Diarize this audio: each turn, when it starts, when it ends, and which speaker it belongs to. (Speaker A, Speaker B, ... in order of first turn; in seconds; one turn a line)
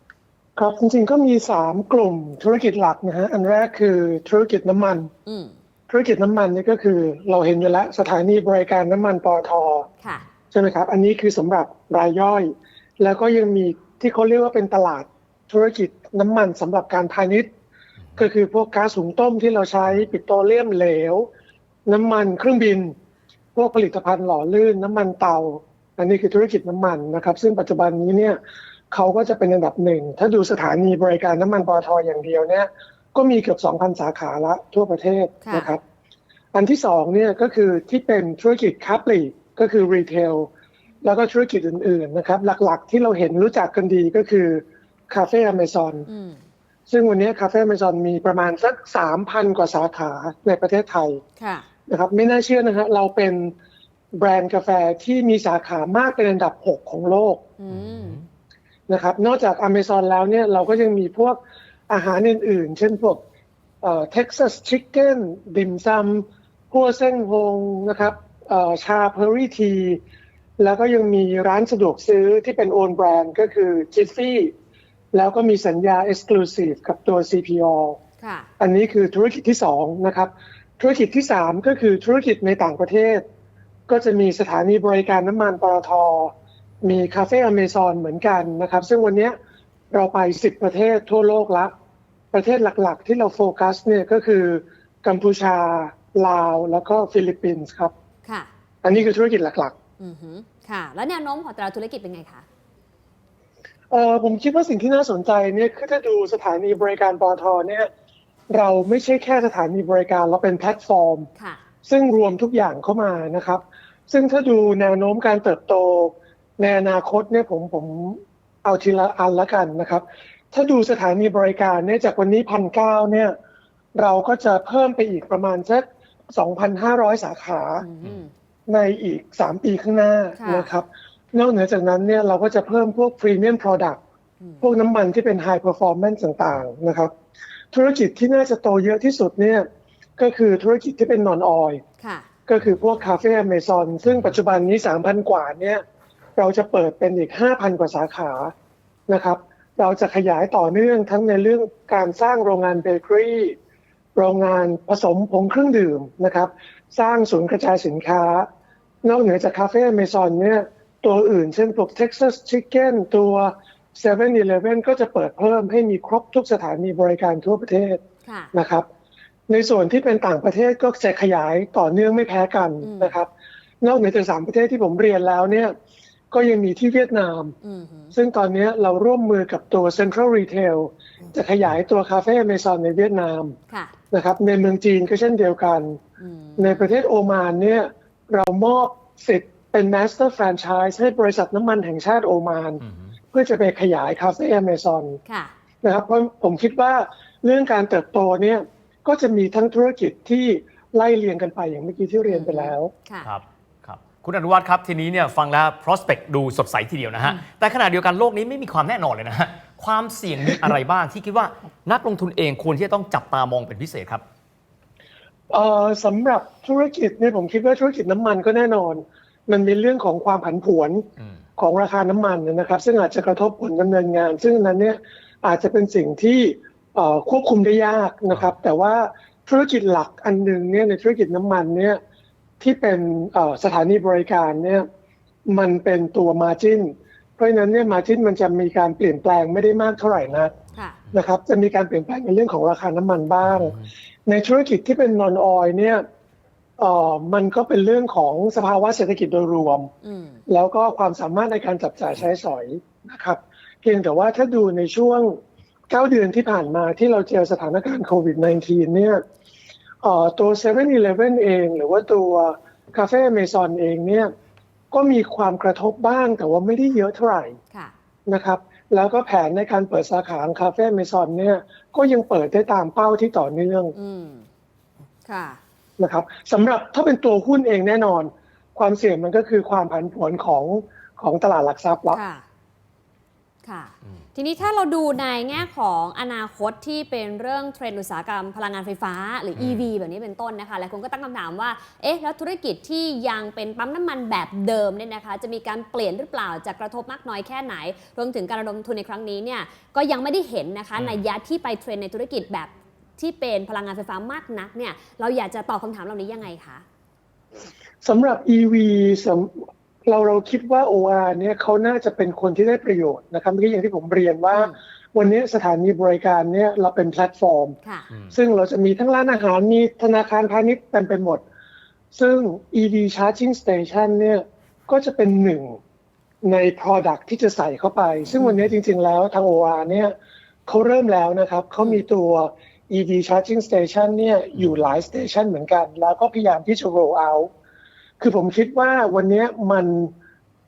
Speaker A: 0.6-5.1
Speaker B: 5.2-5.5
Speaker A: 5.9-9.9
Speaker A: 10.5-17.5
Speaker A: 18.1-21.3
Speaker A: 21.9-22.9
Speaker A: 23.5-28.4
Speaker A: 28.9-35.8
Speaker B: 35.4-35.7
Speaker A: 36.5-40.5
Speaker A: 41.0-46.1
Speaker B: 46.1-46.4
Speaker A: 46.9-51.2
Speaker B: 51.4-51.6
Speaker A: 51.9-53.5
Speaker A: 54.1-57.5
Speaker B: 57.6-58.2
Speaker A: 58.9-63.2
Speaker A: 63.8-70.0
Speaker A: 70.6-74.5
Speaker A: 75.1-78.0
Speaker B: 78.2-78.5
Speaker A: 78.6-83.2
Speaker A: 83.9-89.4
Speaker A: 89.9-91.7
Speaker A: 92.3-97.9
Speaker A: 98.8-99.7
Speaker B: 100.0-102.4
Speaker A: 103.9-107.9
Speaker A: 108.5-111.3
Speaker A: 111.8-123.3
Speaker A: 123.9-127.8
Speaker B: 127.8-128.3
Speaker A: 128.7-134.0
Speaker B: 130.4-130.7
Speaker A: 134.6-137.1
Speaker A: 137.7-139.7
Speaker A: 140.2-141.8
Speaker B: 142.0-142.3
Speaker A: 142.5-145.8
Speaker A: 146.3-148.5
Speaker A: 149.1-153.6
Speaker A: 154.1-158.5
Speaker A: 159.0-168.9
Speaker B: 168.2-168.5
Speaker A: 169.5-173.3
Speaker B: 172.8-173.2
Speaker A: 173.8-175.7
Speaker A: 176.3-177.6
Speaker B: 177.6-178.1
Speaker A: 178.1-183.6
Speaker A: 184.1-186.0
Speaker B: 186.2-186.9
Speaker A: 186.6-195.2
Speaker B: 195.2-195.5
Speaker A: 195.8-202.9
Speaker B: 202.2-203.3
Speaker C: 203.2-214.2
Speaker A: 215.5-232.0
Speaker A: 232.6-234.8
Speaker A: 235.5-240.5
Speaker B: 240.7-241.0
Speaker A: 241.1-246.0
Speaker A: 246.8-249.9
Speaker B: 250.0-250.4
Speaker A: 250.5-259.2
Speaker A: 260.0-264.3
Speaker A: 264.9-267.6
Speaker A: 268.3-273.9
Speaker B: 273.9-274.4
Speaker B: 275.3-275.6
Speaker A: 276.0-282.2
Speaker B: 282.1-282.4
Speaker B: 283.6-306.8
Speaker A: 308.0-317.8
Speaker A: 318.3-321.4
Speaker A: 322.1-325.8
Speaker A: 326.4-330.1
Speaker A: 330.7-337.5
Speaker A: 338.2-340.1